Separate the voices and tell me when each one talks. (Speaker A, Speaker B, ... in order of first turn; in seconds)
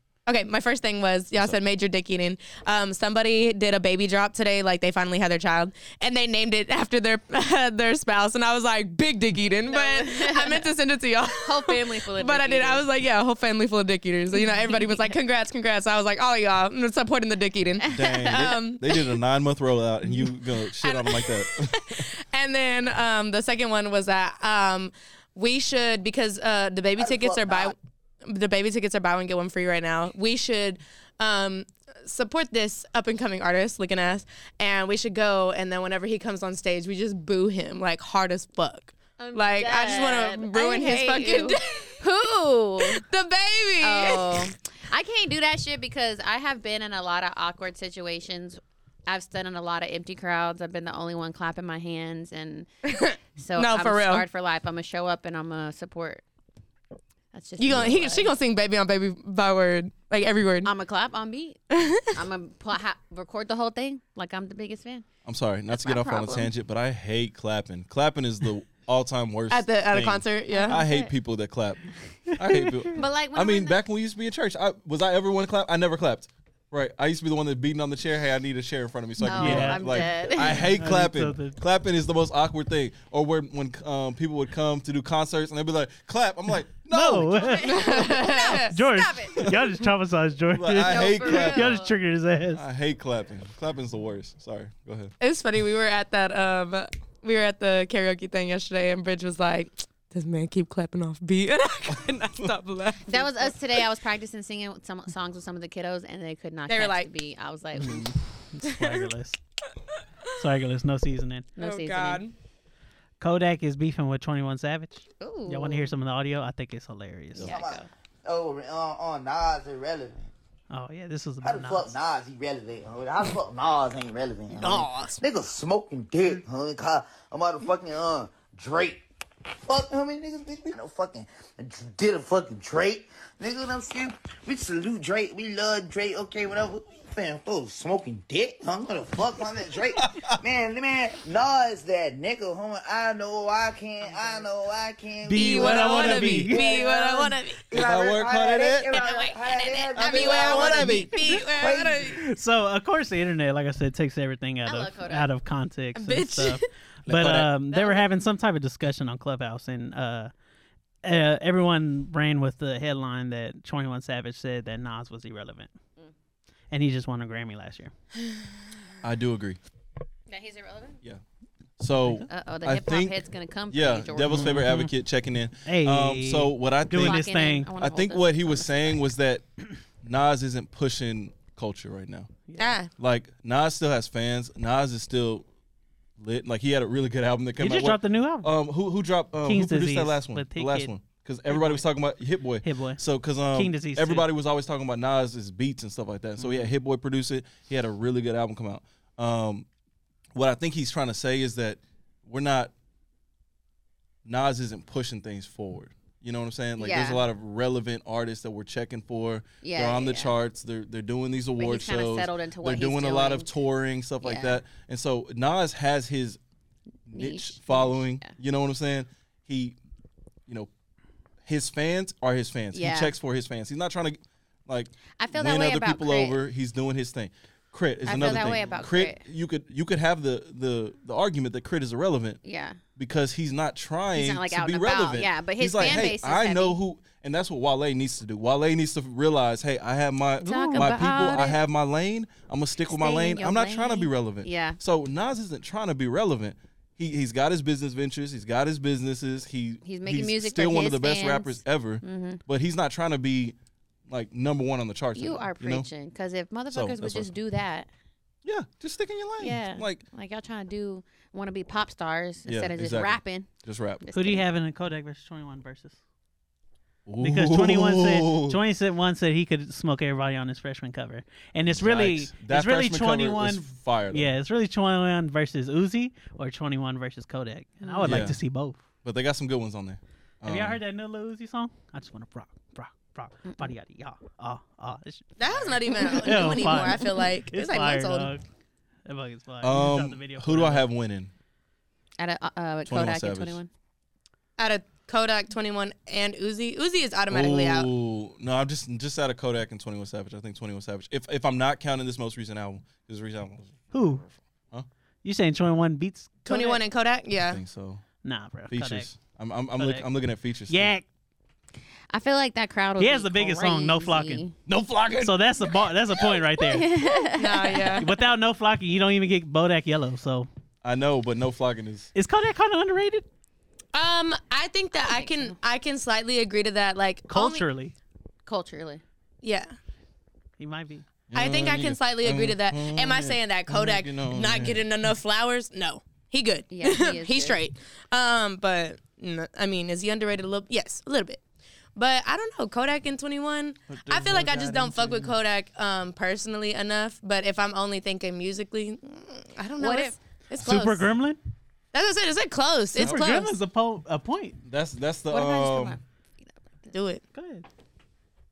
Speaker A: 0.2-19.0, 20.8-21.4, 21.9-41.9, 42.8-44.5, 52.9-54.2, 57.6-60.7, 61.7-62.2, 69.5-70.8, 87.7-88.7, 95.2-103.7, 106.7-107.1, 111.6-112.3, 124.5-125.2, 145.3-147.6, 148.9-152.2, 155.9-156.6, 182.6-182.9, 285.4-288.3, 294.6-297.9, 306.4-307.6, 317.3-318.1, 323.9-327.6, 329.4-329.7, 331.3-341.4, 341.9-351.1, 351.9-353.5, 356.9-357.2
Speaker B: 9.7-10.7, 11.4-12.8, 14.7-15.1, 17.8-18.5, 39.2-43.0, 43.8-52.7, 53.4-56.2, 57.3-58.3, 60.6-61.6, 62.1-65.0, 65.7-66.5, 70.5-71.1, 72.9-73.8, 79.2-80.7, 87.3-89.5, 90.8-91.9, 103.1-108.0, 111.5-112.2, 115.2-115.9, 117.4-117.9, 154.7-155.3, 157.7-158.0, 170.3-171.0, 172.3-174.6, 177.0-179.0, 206.8-207.2, 209.6-210.3, 211.6-213.5, 214.2-214.6, 217.1-218.3, 222.7-223.1, 225.2-226.4, 228.0-229.2, 232.4-232.8, 234.1-236.8, 240.4-241.6, 242.9-244.8, 249.8-252.4, 255.1-257.9, 259.4-263.5, 264.0-264.4, 277.8-278.1, 283.4-283.7, 292.2-293.7, 312.1-314.5, 316.7-318.0, 325.1-325.6, 328.4-329.0, 336.7-337.6, 349.8-350.2, 355.3-356.0
Speaker C: 17.9-22.1, 65.2-71.8, 72.3-87.7, 89.4-89.6, 90.5-91.8, 92.5-95.1, 101.9-102.5, 145.6-146.5, 147.7-149.0, 149.9-151.2, 157.1-157.5, 169.0-169.6, 171.8-179.4, 180.0-182.3, 183.0-185.4, 186.2-199.7, 200.3-202.7, 204.2-216.4, 217.1-219.8, 221.4-232.4, 233.0-253.6, 254.1-255.9, 256.7-257.3, 258.4-260.0, 262.5-264.0, 267.1-268.6, 271.7-274.3, 278.0-278.4, 279.0-280.8, 289.6-291.3, 292.9-293.6, 297.3-304.9, 307.5-308.0, 308.7-310.9, 314.7-316.2, 320.8-322.1, 331.3-334.9, 343.9-345.4, 352.9-353.3, 354.6-356.0
Speaker D: 27.0-27.8, 117.3-120.3, 121.4-129.0, 129.7-147.0, 147.7-152.1
Speaker E: 79.2-81.6, 86.9-92.6, 107.8-109.4, 110.3-111.5, 113.2-117.5, 120.7-121.9, 145.2-147.3, 152.2-160.3, 161.0-165.7, 166.7-167.9, 174.3-174.9, 175.6-177.7, 182.5-182.8, 187.6-188.5, 189.4-190.9, 191.5-191.8, 192.6-194.3, 196.4-196.7, 240.4-241.4, 264.1-266.0, 267.2-278.8, 280.4-285.4, 285.9-288.4, 289.1-290.9, 303.9-304.2, 305.2-306.8, 308.2-309.1, 309.8-310.1, 310.7-311.0, 313.0-314.4, 315.2-316.9, 318.0-320.5, 322.1-323.2, 327.3-327.9, 330.6-331.1, 350.6-351.4, 353.0-354.6, 357.3-357.6